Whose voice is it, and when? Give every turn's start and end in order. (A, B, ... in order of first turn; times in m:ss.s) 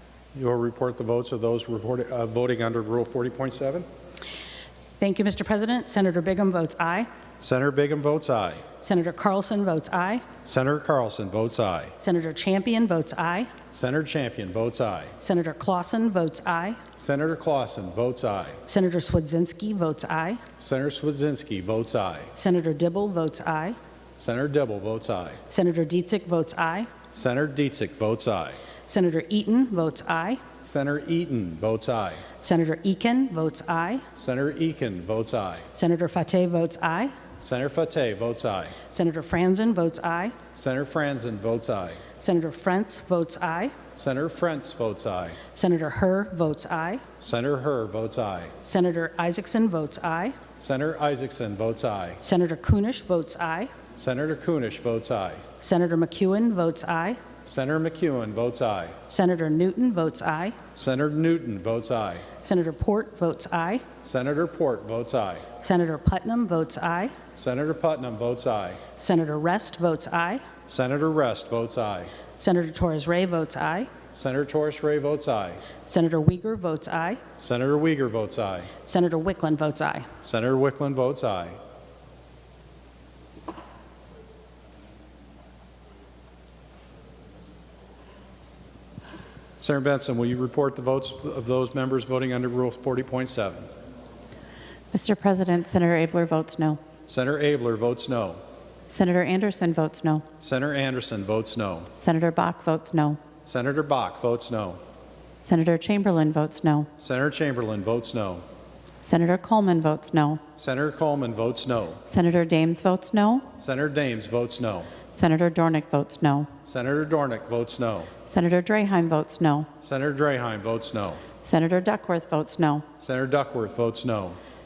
0:00.3-0:03.9 A
0:05.0-0:07.1 B
0:07.4-0:08.6 A
0:08.8-0:10.3 B
0:10.4-0:11.9 A
0:12.0-0:13.5 B
0:13.7-0:15.1 A
0:15.2-0:16.8 B
0:17.0-0:18.6 A
0:18.6-0:20.4 B
0:20.6-0:22.3 A
0:22.3-0:23.8 B
0:24.2-0:25.4 A
0:25.5-0:26.9 B
0:27.1-0:28.6 A
0:28.9-0:30.4 B
0:30.6-0:32.2 A
0:32.4-0:34.0 B
0:34.2-0:35.7 A
0:35.7-0:37.1 B
0:37.4-0:38.8 A
0:38.9-0:40.4 B
0:40.5-0:42.0 A
0:42.2-0:43.8 B
0:43.9-0:45.4 A
0:45.5-0:47.0 B
0:47.2-0:48.5 A
0:48.6-0:50.4 B
0:50.6-0:52.2 A
0:52.2-0:53.7 B
0:53.9-0:55.4 A
0:55.6-0:57.2 B
0:57.4-0:59.0 A
0:59.1-1:00.6 B
1:00.8-1:02.3 A
1:02.4-1:03.9 B
1:04.0-1:05.5 A
1:05.6-1:07.2 B
1:07.4-1:08.8 A
1:09.0-1:10.4 B
1:10.7-1:12.1 A
1:12.4-1:13.9 B
1:14.1-1:15.6 A
1:15.8-1:17.2 B
1:17.4-1:18.7 A
1:18.8-1:20.1 B
1:20.2-1:21.6 A
1:29.6-1:33.7 A
1:34.9-1:36.8 C
1:37.1-1:38.4 A
1:38.9-1:40.2 C
1:40.4-1:41.9 A
1:42.0-1:43.2 C
1:43.4-1:44.8 A
1:45.4-1:46.9 C
1:47.0-1:48.4 A
1:49.0-1:50.4 C
1:50.6-1:52.0 A
1:52.1-1:53.5 C
1:53.6-1:54.9 A
1:55.1-1:56.5 C
1:56.6-1:58.1 A
1:58.2-1:59.7 C
1:59.8-2:01.2 A
2:01.4-2:02.8 C
2:03.0-2:04.4 A